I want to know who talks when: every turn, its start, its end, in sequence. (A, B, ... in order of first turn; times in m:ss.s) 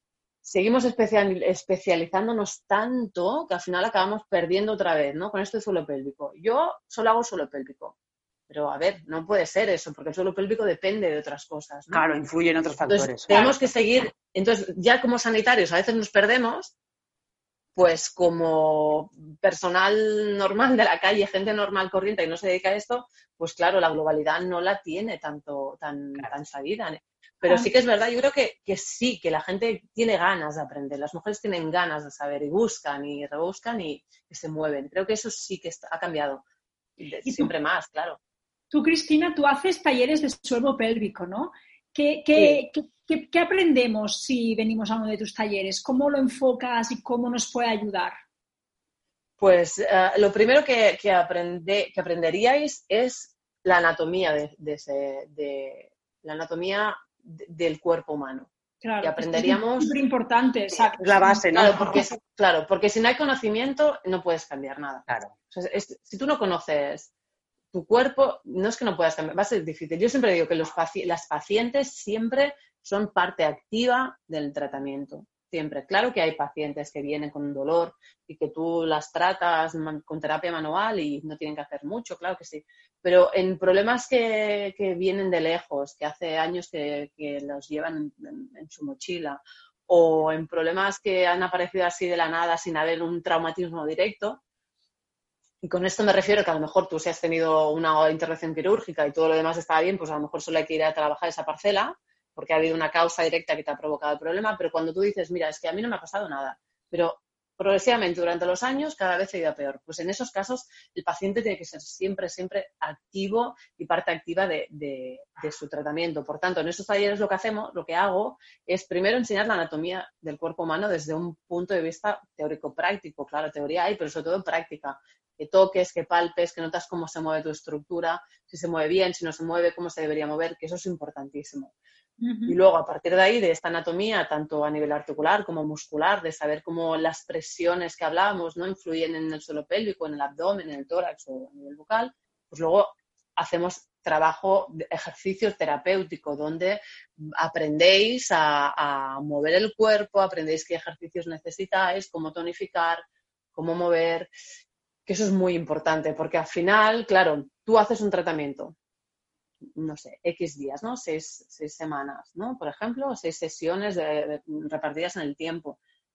0:00.4-0:07.9 A
0:08.5-0:12.0 A
0:11.9-0:13.4 B
0:12.9-0:16.7 A
0:17.8-0:36.4 A
0:37.0-0:38.2 A
0:38.7-0:48.1 C
0:42.3-0:42.6 A
0:49.4-0:59.9 A
0:58.8-1:01.4 C
1:00.7-1:02.1 B
1:01.5-1:07.1 A
1:05.1-1:05.3 B
1:07.7-1:34.4 A
1:35.6-2:11.7 A
2:12.2-2:12.6 C
2:12.5-2:34.3 A
2:35.1-2:38.7 A
2:39.7-2:45.8 A